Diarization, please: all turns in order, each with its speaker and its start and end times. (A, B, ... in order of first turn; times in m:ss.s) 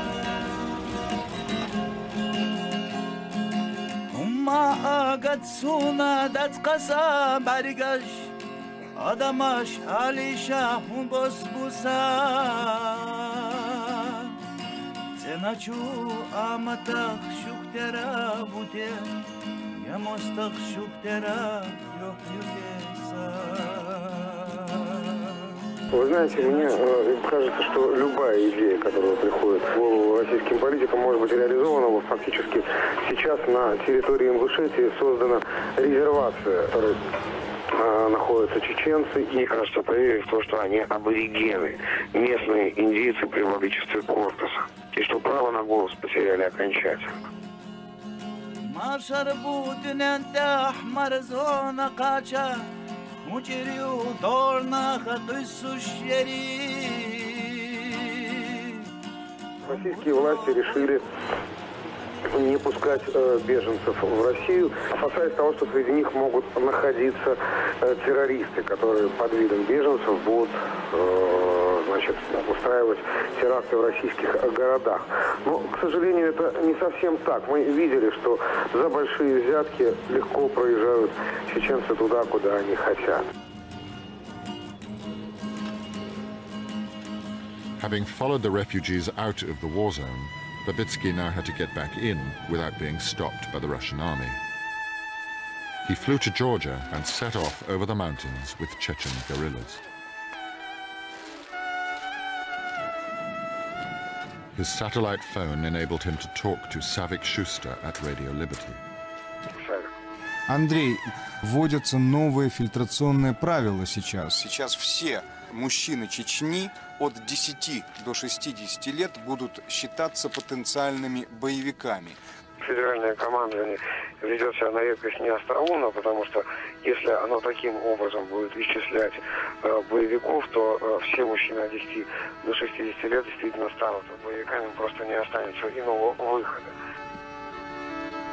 0:04.1-0:08.3 A
0:09.0-0:14.3 A
0:15.2-0:19.1 A
0:19.8-0:24.9 A
0:25.9-0:37.0 B
0:37.7-0:47.3 B
0:48.7-0:52.7 A
0:53.2-0:58.7 A
0:59.6-1:01.0 B
1:02.3-1:23.3 B
1:27.8-1:34.4 C
1:35.8-1:39.8 C
1:44.5-1:48.8 C
1:49.6-1:49.9 B
1:50.5-2:02.2 D
2:02.6-2:16.7 B